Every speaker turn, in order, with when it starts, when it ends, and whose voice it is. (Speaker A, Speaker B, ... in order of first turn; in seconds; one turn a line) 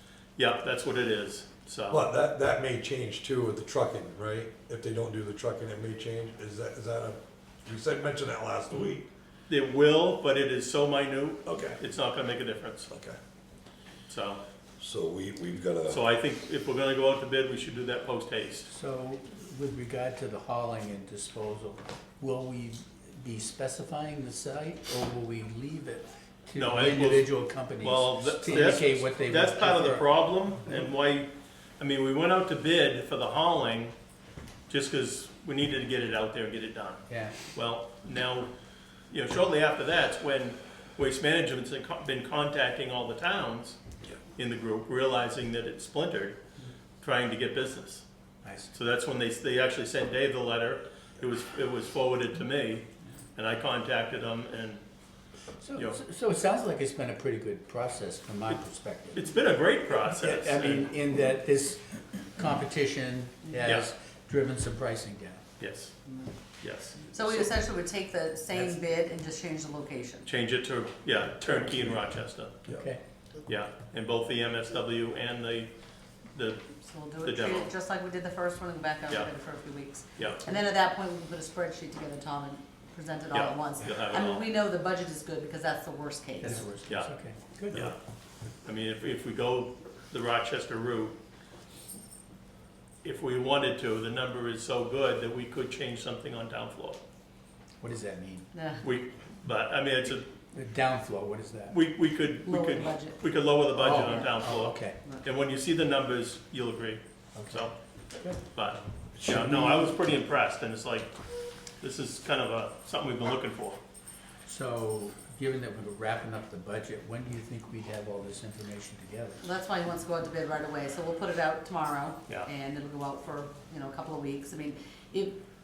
Speaker A: 0.4-2.0
Speaker B: 1.9-9.1
Speaker A: 9.5-12.9
Speaker B: 11.4-11.8
Speaker B: 12.9-13.2
Speaker A: 14.1-14.4
Speaker B: 14.8-16.0
Speaker A: 15.9-18.6
Speaker C: 18.7-30.1
Speaker A: 26.6-31.3
Speaker A: 31.8-33.9
Speaker A: 34.7-38.5
Speaker C: 37.1-37.4
Speaker A: 39.1-43.8
Speaker A: 44.4-46.4
Speaker A: 47.0-48.0
Speaker C: 48.4-48.7
Speaker A: 48.7-54.8
Speaker C: 55.6-59.2
Speaker A: 55.7-56.0
Speaker A: 59.1-60.9
Speaker C: 60.1-65.4
Speaker A: 63.6-63.9
Speaker A: 65.6-66.0
Speaker A: 66.6-67.0
Speaker D: 67.1-70.3
Speaker A: 70.2-72.6
Speaker C: 72.7-73.0
Speaker A: 73.5-75.7
Speaker A: 76.3-76.6
Speaker D: 76.8-86.7
Speaker A: 77.2-77.7
Speaker A: 80.2-80.4
Speaker A: 83.3-84.5
Speaker C: 86.4-87.8
Speaker A: 86.8-87.1
Speaker A: 88.6-91.2
Speaker A: 93.0-97.0
Speaker C: 97.8-98.5
Speaker D: 98.5-98.8
Speaker A: 98.8-100.3
Speaker C: 100.5-101.8
Speaker A: 101.7-107.7
Speaker D: 102.4-103.2
Speaker C: 103.8-105.0
Speaker D: 103.8-104.3
Speaker C: 107.3-108.4
Speaker A: 108.5-111.1
Speaker B: 109.2-109.9
Speaker A: 111.8-113.8
Speaker C: 114.5-119.4
Speaker D: 119.4-125.4